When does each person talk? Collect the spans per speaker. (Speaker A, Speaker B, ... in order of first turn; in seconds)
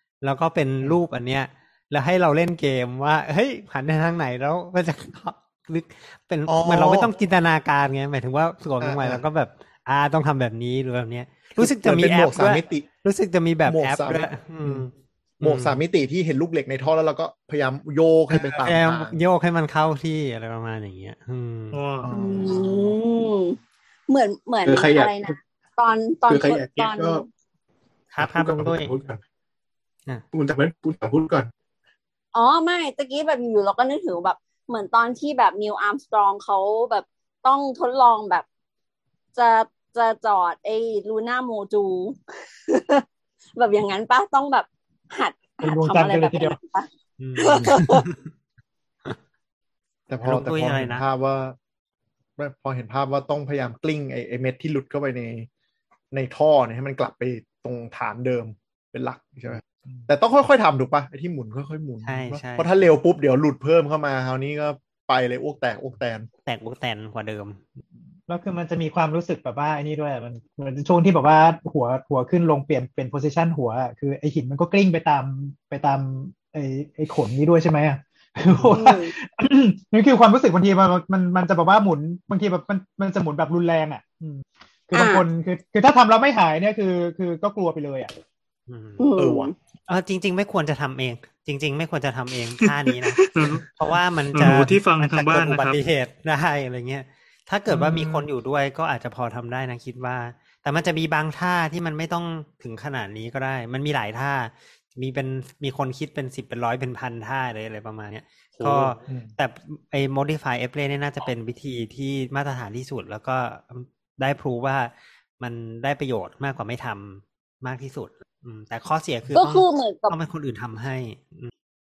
Speaker A: 0.2-15.8, 18.3-21.8, 28.1-28.9, 47.2-48.3, 50.2-51.0, 62.0-62.7, 66.5-67.7, 88.7-89.0, 89.9-121.5
Speaker B: 6.5-7.1, 8.8-9.2, 11.6-12.8, 13.6-14.9, 15.4-19.1, 22.0-22.9, 50.1-51.5, 52.4-55.5, 56.1-66.3, 89.2-89.5
Speaker C: 21.7-22.1, 92.9-93.7, 94.3-95.8, 108.6-108.9
Speaker D: 22.1-23.6, 24.1-27.2, 32.3-38.4, 39.4-43.0, 43.6-48.0, 78.7-79.1, 84.9-85.2, 89.0-89.5, 119.3-120.2
Speaker E: 24.6-25.3, 26.3-27.2, 28.2-29.2, 30.3-31.5
Speaker F: 45.6-46.5, 68.3-88.1, 97.7-98.2